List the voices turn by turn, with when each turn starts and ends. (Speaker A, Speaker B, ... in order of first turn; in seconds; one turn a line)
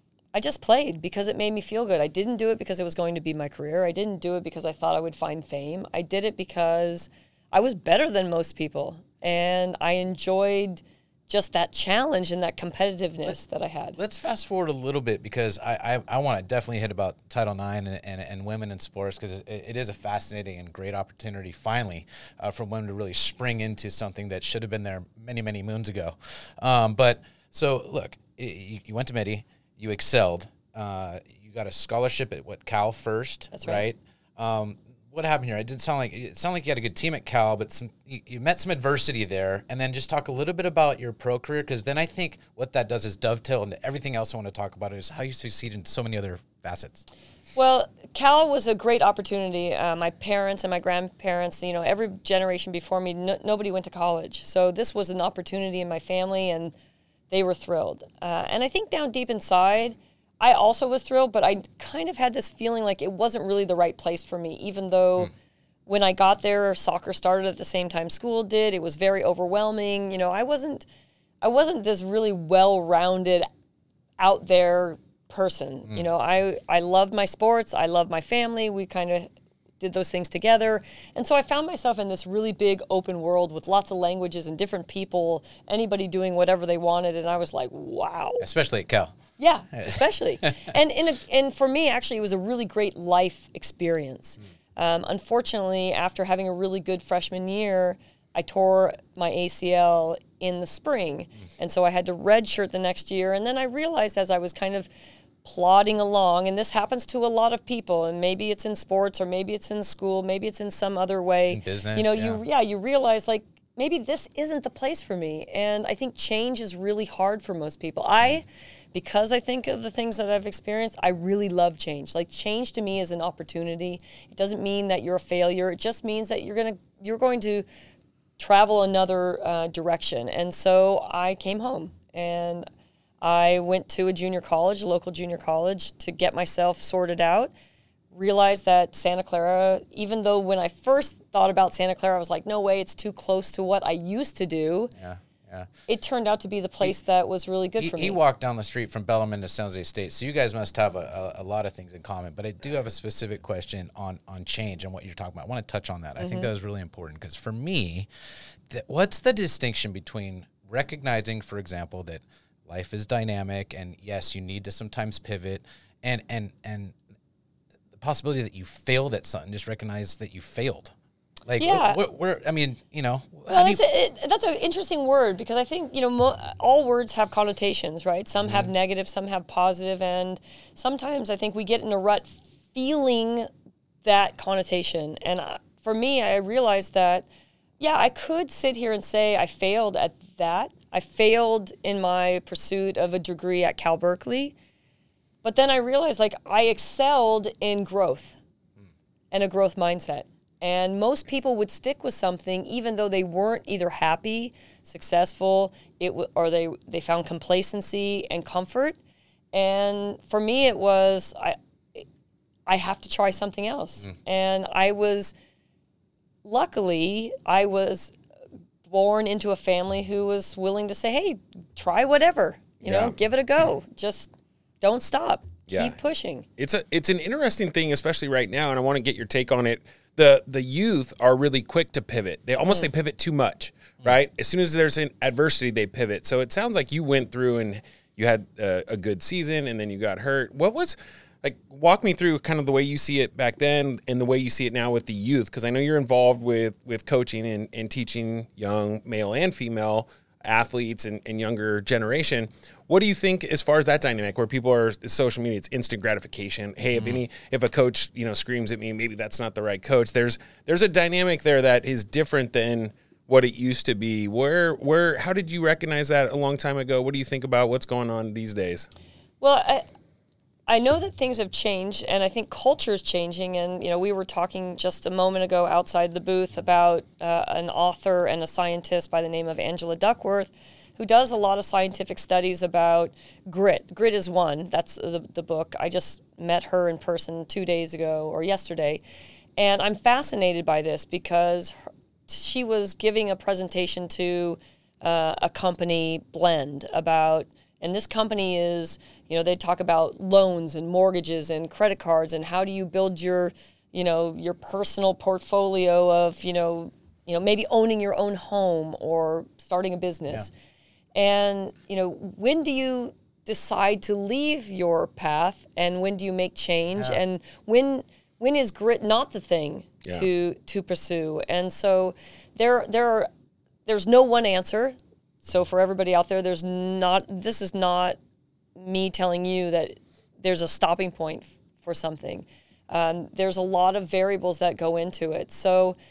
Speaker A: 0.3-14.0
Speaker B: 14.0-47.0
Speaker A: 33.5-33.9
Speaker A: 47.5-56.7
Speaker A: 57.3-65.3
Speaker A: 65.9-70.8
Speaker A: 71.4-73.5
Speaker A: 74.2-88.4
Speaker B: 88.4-89.2
Speaker A: 89.4-104.9
Speaker B: 89.7-90.7
Speaker A: 105.4-127.6
Speaker B: 111.5-112.4
Speaker A: 128.4-132.7
Speaker A: 133.2-137.5
Speaker A: 138.1-144.9
Speaker B: 145.0-145.7
Speaker A: 145.9-148.2
Speaker B: 147.8-158.1
Speaker A: 156.2-156.5
Speaker B: 158.7-166.9
Speaker B: 167.9-170.9
Speaker B: 171.4-173.8
Speaker A: 171.6-172.0
Speaker A: 173.5-183.5
Speaker A: 184.0-187.2
Speaker A: 187.8-194.5
Speaker A: 195.4-198.4
Speaker A: 199.3-209.0
Speaker A: 209.5-212.1
Speaker A: 212.7-215.3
Speaker A: 216.4-218.1
Speaker A: 218.8-224.3
Speaker C: 222.8-223.2
Speaker A: 224.8-226.4
Speaker C: 225.7-225.9
Speaker C: 226.6-268.9
Speaker B: 256.9-257.2
Speaker A: 269.4-269.8
Speaker A: 270.7-289.0
Speaker A: 289.6-291.8
Speaker A: 292.3-310.5
Speaker A: 311.1-323.3
Speaker A: 323.9-328.2
Speaker A: 328.8-335.9